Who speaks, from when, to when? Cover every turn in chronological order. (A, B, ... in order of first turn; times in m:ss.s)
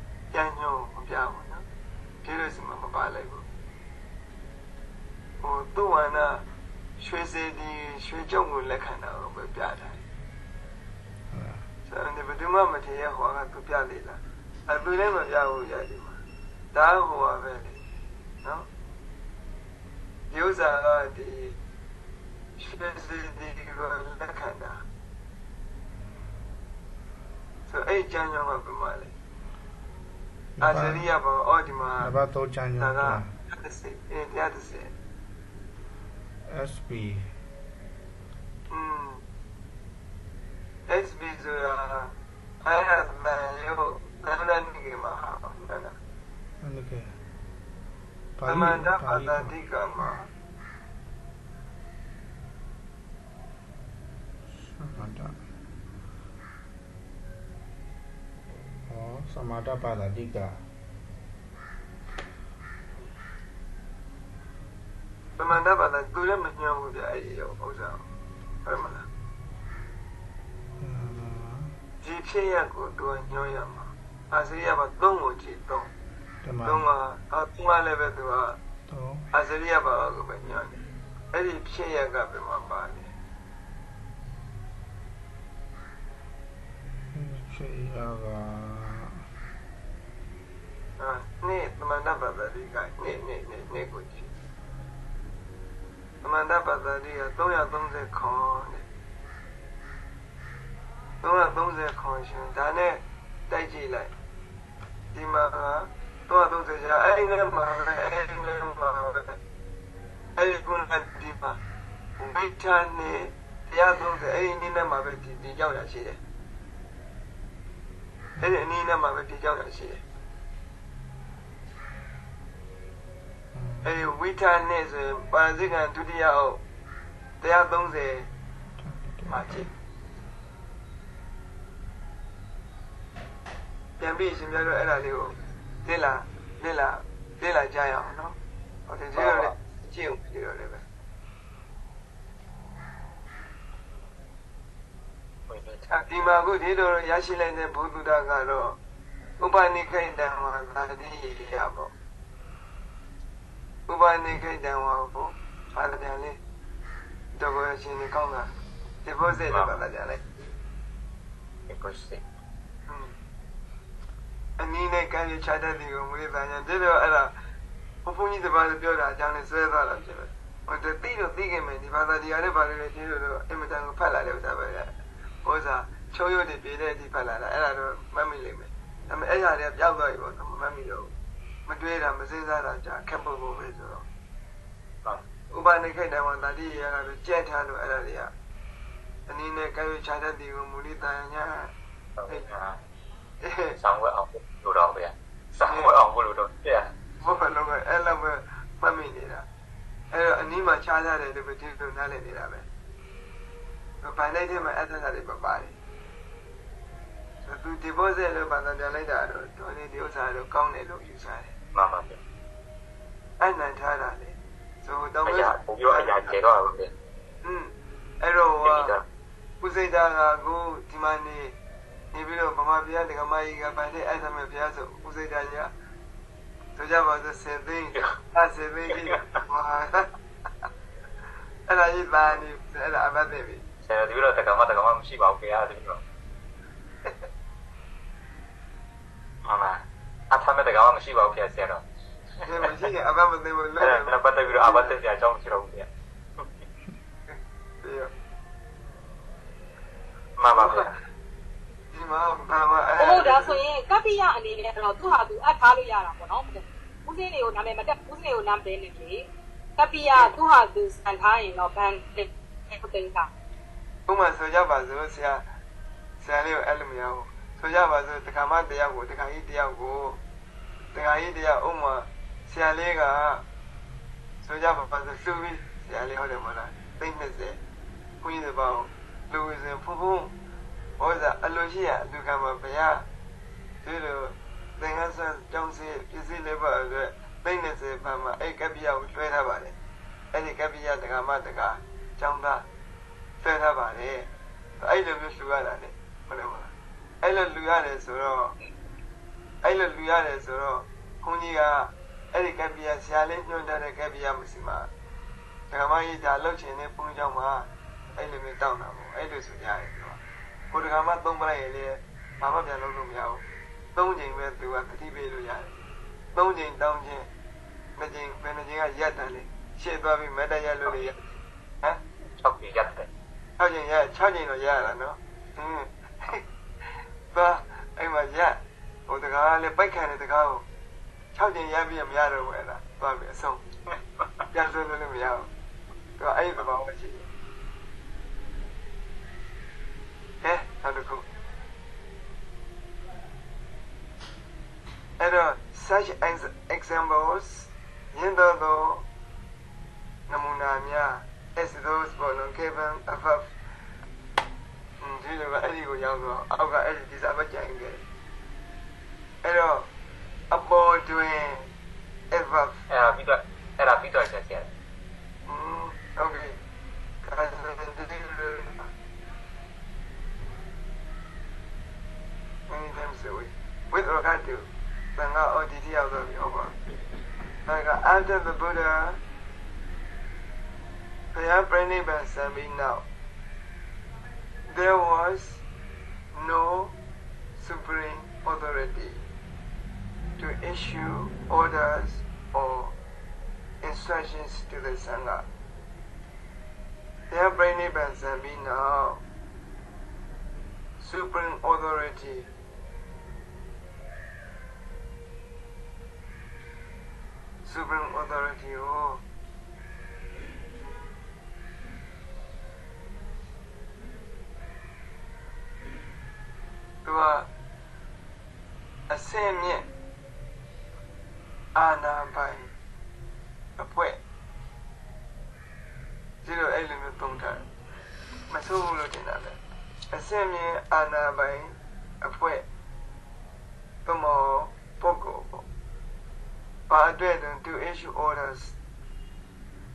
0:00.3-0:01.6 A
0:02.2-0:03.4 A
0:05.4-0:06.4 A
0:07.0-0:10.0 A
0:11.3-0:11.7 B
0:11.9-0:16.2 A
0:16.7-0:17.8 A
0:20.3-0:21.6 A
0:22.6-0:24.8 A
0:27.7-0:29.1 A
0:30.6-0:31.1 B
0:30.6-0:32.2 A
0:32.0-0:33.3 B
0:32.8-0:34.9 A
0:36.5-0:37.3 B
0:38.7-0:39.2 A
0:40.9-0:42.1 A
0:42.6-0:46.0 A
0:46.6-0:47.2 B
0:48.4-0:49.5 B
0:48.5-0:50.3 A
0:54.6-0:55.4 B
0:58.9-1:00.6 B
1:05.4-1:08.1 A
1:08.6-1:09.1 A
1:10.8-1:11.8 B
1:12.0-1:15.9 A
1:16.4-1:16.9 B
1:16.6-1:18.6 A
1:18.9-1:19.3 B
1:19.3-1:20.8 A
1:21.3-1:23.1 A
1:27.1-1:29.2 B
1:31.0-1:34.3 A
1:36.2-1:38.8 A
1:41.2-1:44.1 A
1:45.1-1:49.4 A
1:50.4-1:51.6 A
1:52.2-1:56.2 A
1:58.4-2:00.0 A
2:03.5-2:04.0 B
2:03.8-2:06.6 A
2:07.4-2:08.3 A
2:08.8-2:09.7 B
2:09.3-2:09.7 A
2:14.0-2:18.4 A
2:18.9-2:20.8 A
2:19.2-2:19.5 C
2:25.5-2:25.9 C
2:25.9-2:28.8 A
2:29.4-2:31.9 A
2:33.9-2:36.4 A
2:37.4-2:38.5 A
2:39.0-2:40.2 A
2:41.7-2:42.2 C
2:44.6-2:47.3 A
2:48.0-2:54.9 A
2:55.4-3:01.1 A
3:01.7-3:04.0 A
3:05.5-3:08.3 A
3:09.3-3:11.7 A
3:12.2-3:12.8 C
3:13.4-3:13.8 A
3:13.8-3:16.9 C
3:15.6-3:15.9 A
3:17.2-3:19.5 A
3:20.1-3:22.7 A
3:24.0-3:25.7 A
3:27.4-3:31.5 A
3:31.7-3:32.2 C
3:33.4-3:36.4 A
3:35.3-3:36.9 C
3:37.4-3:38.9 A
3:38.6-3:39.0 C
3:39.6-3:41.5 A
3:42.1-3:45.7 A
3:46.8-3:50.1 A
3:51.7-3:53.6 A
3:53.8-3:56.0 C
3:59.4-4:01.8 C
4:02.4-4:05.0 A
4:03.8-4:06.5 C
4:07.3-4:08.1 A
4:10.4-4:10.9 C
4:10.5-4:10.9 A
4:11.9-4:13.6 A
4:13.0-4:23.3 D
4:24.1-4:25.4 A
4:26.2-4:30.2 A
4:30.9-4:33.4 A
4:34.4-4:37.6 A
4:38.2-4:40.3 A
4:41.0-4:43.0 A
4:43.8-4:49.8 A
4:50.3-4:52.6 A
4:53.4-4:56.7 A
4:57.2-4:58.6 A
4:59.6-5:04.9 A
5:05.7-5:10.2 A
5:10.7-5:13.4 A
5:14.0-5:15.7 A
5:16.4-5:17.3 A
5:18.0-5:22.0 A
5:22.4-5:23.1 C
5:23.6-5:26.4 A
5:27.3-5:30.6 A
5:31.3-5:33.6 A
5:34.5-5:35.5 A
5:36.2-5:37.3 A
5:40.4-5:41.2 A
5:45.2-5:49.0 A
5:50.3-5:53.5 A
5:55.0-5:58.0 A
5:59.4-5:59.9 A
6:00.5-6:01.7 A
6:02.3-6:02.8 A
6:02.9-6:04.7 C
6:05.5-6:06.6 A
6:07.2-6:08.9 A
6:12.7-6:16.8 A
6:17.7-6:19.2 A
6:21.3-6:23.0 A
6:24.7-6:25.6 A
6:26.4-6:26.9 A
6:27.6-6:29.2 A
6:30.4-6:32.9 A
6:33.8-6:35.4 A
6:37.3-6:39.2 A
6:41.0-6:42.5 A
6:47.6-6:49.2 A
6:57.0-6:57.5 A
6:59.1-6:59.9 A
7:01.8-7:02.7 A
7:03.8-7:04.2 A
7:06.4-7:07.7 A
7:08.5-7:09.6 A
7:10.1-7:12.6 A
7:14.0-7:15.6 A
7:16.9-7:18.8 A